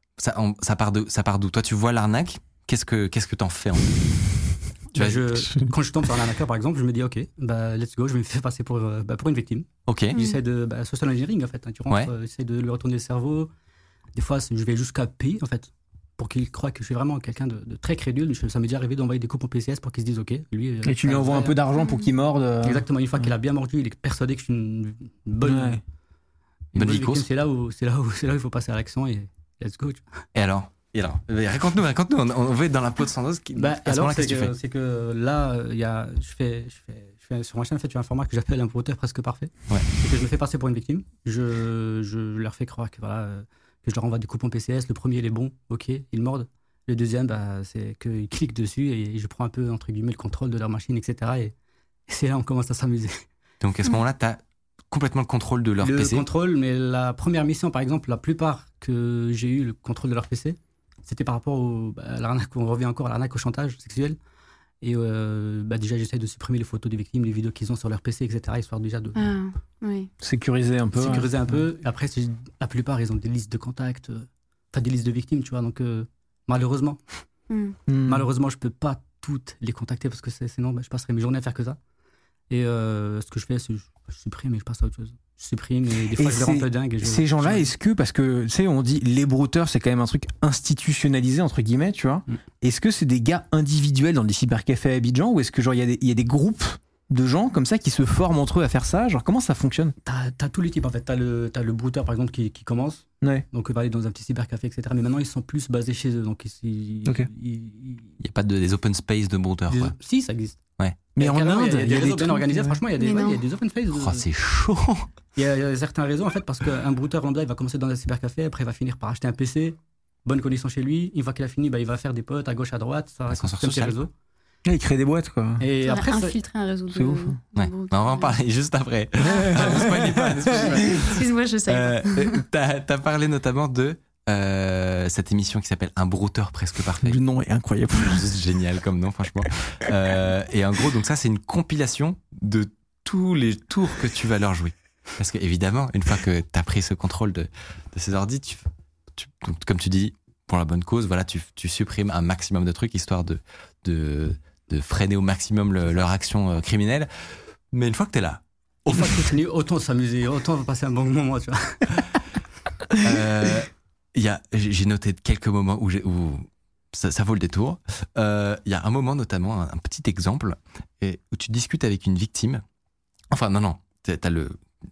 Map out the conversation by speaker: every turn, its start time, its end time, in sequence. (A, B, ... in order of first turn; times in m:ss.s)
0:00.2-0:04.0 A
0:04.9-0:05.5 A
0:04.9-0:13.5 B
0:09.8-0:10.2 A
0:10.1-0:10.4 C
0:14.1-0:21.6 B
0:20.8-0:23.3 D
0:21.8-0:22.0 C
0:22.6-0:25.8 B
0:25.4-0:25.8 D
0:26.7-0:30.0 B
0:26.8-0:27.2 A
0:30.3-0:34.5 A
0:33.5-0:51.5 B
0:52.1-0:53.2 B
0:53.6-0:56.3 A
0:55.8-1:04.2 B
1:04.8-1:09.3 B
1:09.2-1:10.1 C
1:10.2-1:11.6 D
1:10.9-1:17.0 B
1:17.5-1:17.8 C
1:17.9-1:18.3 D
1:18.0-1:21.8 B
1:22.5-1:27.7 B
1:26.0-1:39.9 D
1:40.0-1:48.1 B
1:48.2-1:49.9 A
1:49.7-1:50.6 B
1:50.8-1:51.1 A
1:51.2-1:52.8 D
1:51.2-1:54.2 B
1:53.0-1:53.4 C
1:53.9-1:55.1 A
1:55.4-2:04.1 B
2:03.3-2:04.0 A
2:04.6-2:05.6 D
2:05.6-2:06.4 B
2:05.8-2:08.4 C
2:06.9-2:07.4 D
2:07.6-2:17.2 A
2:09.2-2:11.1 D
2:10.8-2:12.4 C
2:17.0-2:18.4 D
2:18.0-2:37.1 A
2:37.7-2:39.2 A
2:38.9-2:41.8 B
2:43.0-2:52.6 A
2:53.3-2:54.6 A